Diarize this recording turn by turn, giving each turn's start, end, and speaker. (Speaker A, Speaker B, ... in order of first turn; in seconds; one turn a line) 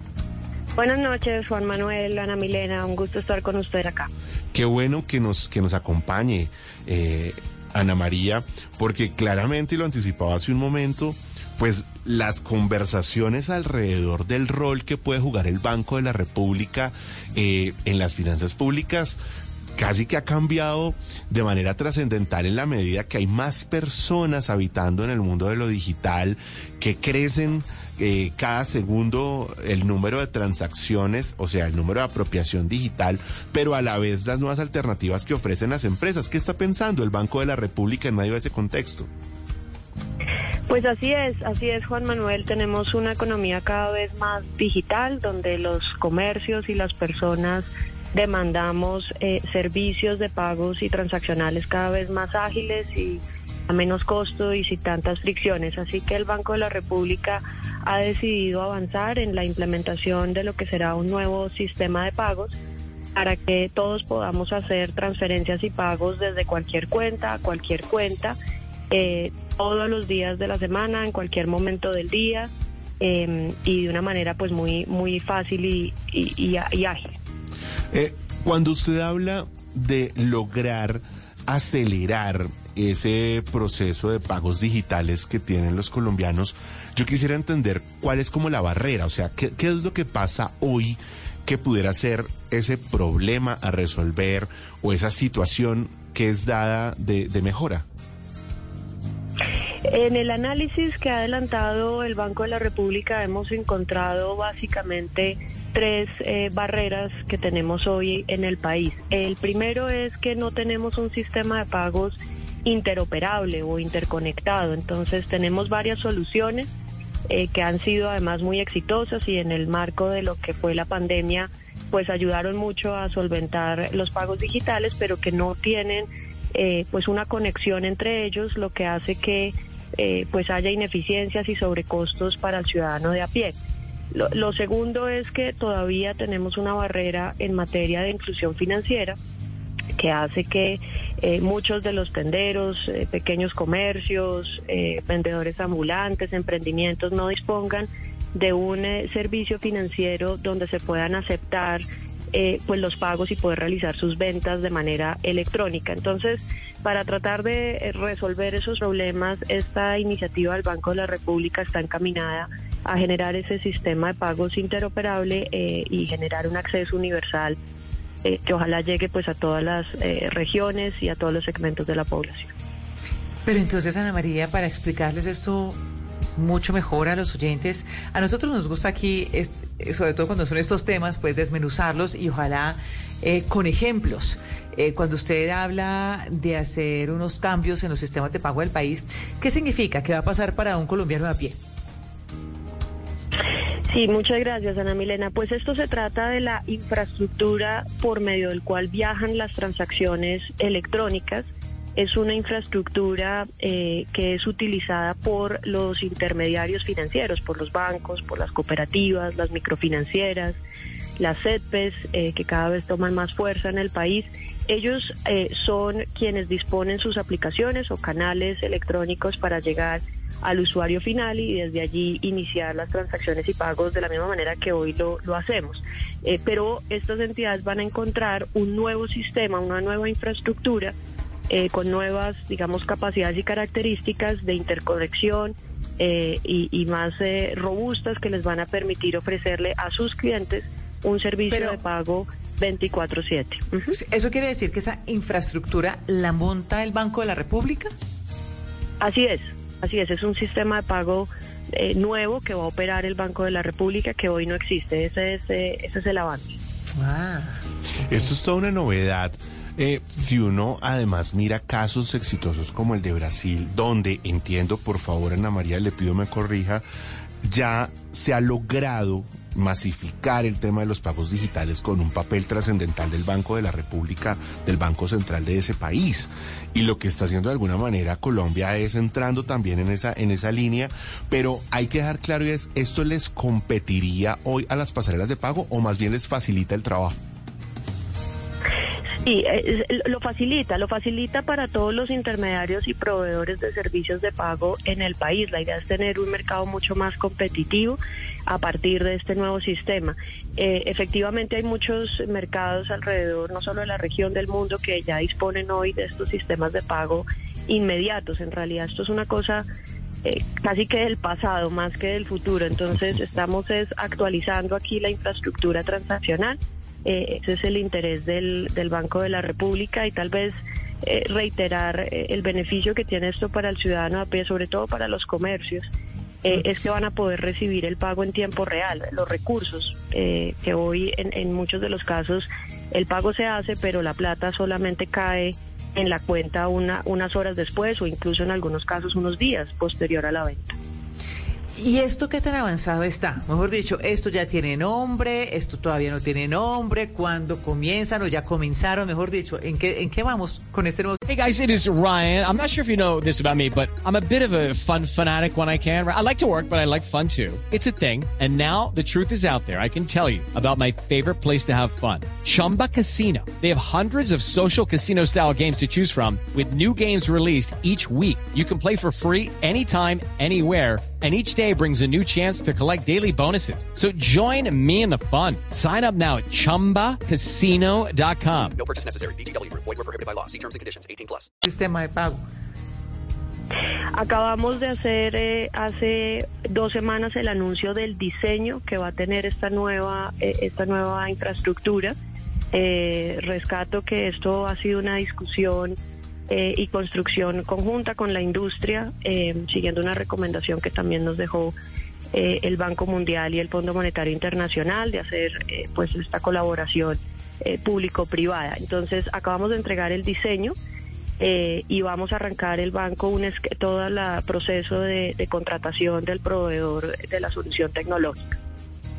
Speaker A: 0.8-4.1
Speaker B: 4.5-19.2
Speaker B: 19.8-39.1
Speaker A: 40.7-62.5
Speaker A: 63.1-68.3
Speaker A: 68.9-72.5
Speaker A: 73.0-77.2
Speaker B: 77.9-97.8
Speaker A: 99.8-116.7
Speaker A: 117.3-133.5
Speaker A: 134.1-139.2
Speaker A: 139.9-167.6
Speaker A: 168.2-172.5
Speaker C: 173.4-175.8
Speaker C: 176.3-191.6
Speaker A: 193.9-210.6
Speaker A: 211.2-230.9
Speaker A: 231.5-243.9
Speaker C: 241.5-241.8
Speaker C: 243.9-247.9
Speaker A: 249.0-256.6
Speaker C: 256.9-257.6
Speaker B: 258.0-266.8
Speaker B: 267.4-287.2
Speaker A: 289.2-309.6
Speaker A: 310.2-325.9
Speaker A: 326.4-340.8
Speaker C: 341.8-351.2
Speaker D: 351.3-378.8
Speaker E: 378.8-381.5
Speaker C: 381.6-382.4
Speaker A: 384.1-392.1
Speaker A: 392.7-395.9
Speaker A: 396.5-401.7
Speaker A: 402.3-410.7
Speaker A: 411.4-418.6